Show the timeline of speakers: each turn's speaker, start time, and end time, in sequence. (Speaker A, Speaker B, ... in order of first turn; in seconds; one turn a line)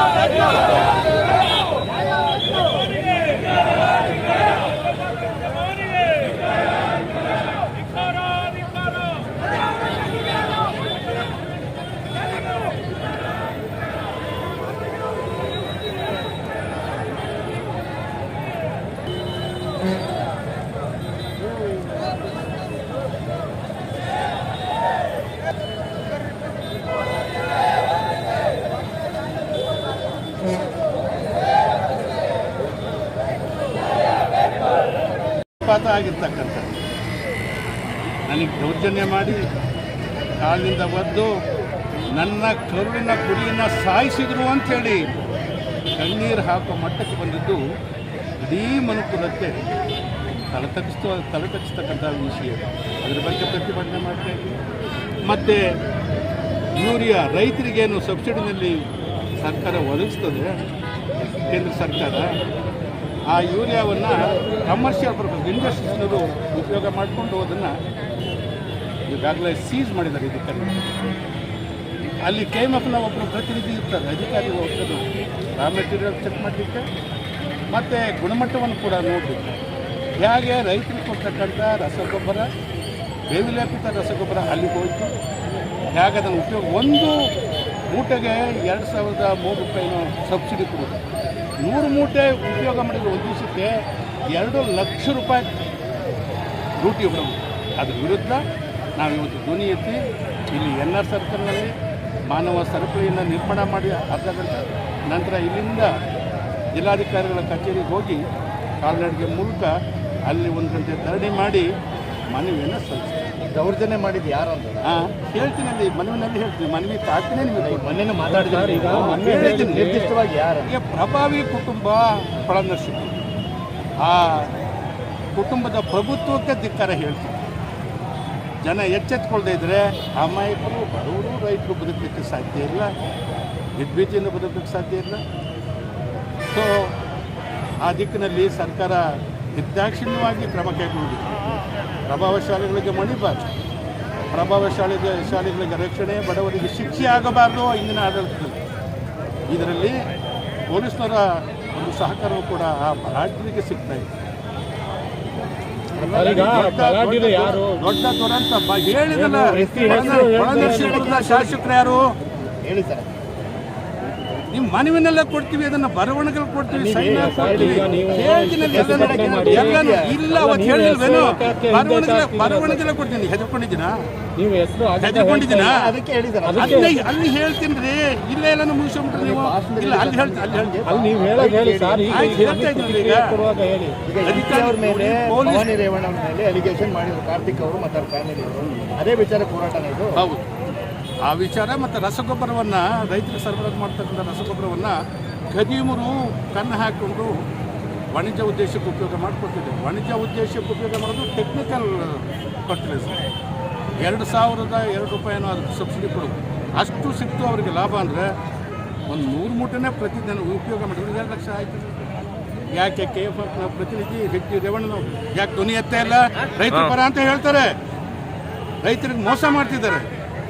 Speaker A: 35.6-36.8
Speaker A: 38.3-39.4
Speaker A: 40.4-41.3
Speaker A: 42.1-45.0
Speaker A: 46.0-47.6
Speaker A: 48.4-49.6
Speaker A: 50.5-54.5
Speaker A: 55.2-55.6
Speaker A: 56.8-58.8
Speaker A: 59.4-60.5
Speaker A: 61.5-62.3
Speaker A: 63.3-67.7
Speaker A: 69.1-70.9
Speaker A: 72.2-75.0
Speaker A: 75.6-76.8
Speaker A: 77.7-79.6
Speaker A: 80.2-82.5
Speaker A: 83.3-85.1
Speaker A: 85.9-87.1
Speaker A: 87.9-91.0
Speaker A: 91.6-93.7
Speaker A: 94.3-95.5
Speaker A: 96.8-98.4
Speaker A: 99.0-101.7
Speaker A: 102.3-105.9
Speaker A: 106.8-108.2
Speaker A: 108.8-109.7
Speaker A: 110.3-111.7
Speaker A: 112.3-113.3
Speaker B: 113.4-115.0
Speaker A: 114.9-118.0
Speaker B: 117.6-120.7
Speaker C: 118.3-120.1
Speaker A: 118.6-119.9
Speaker A: 120.7-123.1
Speaker A: 124.0-124.5
Speaker A: 125.3-127.4
Speaker A: 128.6-132.9
Speaker A: 133.8-135.2
Speaker A: 136.5-136.9
Speaker A: 137.8-139.0
Speaker A: 139.6-141.3
Speaker A: 142.1-143.4
Speaker A: 144.3-148.6
Speaker A: 149.5-149.9
Speaker A: 150.7-154.1
Speaker B: 155.9-156.6
Speaker A: 156.0-162.0
Speaker C: 156.1-157.8
Speaker C: 159.1-161.3
Speaker B: 159.4-162.0
Speaker B: 162.6-163.1
Speaker A: 164.5-174.0
Speaker B: 166.7-168.1
Speaker C: 167.1-172.8
Speaker B: 168.7-170.2
Speaker C: 174.4-175.8
Speaker A: 175.0-175.8
Speaker B: 175.7-176.9
Speaker C: 176.4-176.9
Speaker A: 176.6-180.8
Speaker B: 179.1-182.4
Speaker C: 180.8-184.0
Speaker A: 182.1-183.3
Speaker B: 184.1-190.2
Speaker A: 184.2-185.7
Speaker A: 188.6-188.9
Speaker A: 190.2-190.4
Speaker A: 191.2-194.9
Speaker A: 195.5-197.3
Speaker A: 198.1-203.2
Speaker A: 204.0-208.3
Speaker A: 209.1-212.0
Speaker A: 212.7-217.7
Speaker A: 218.8-220.1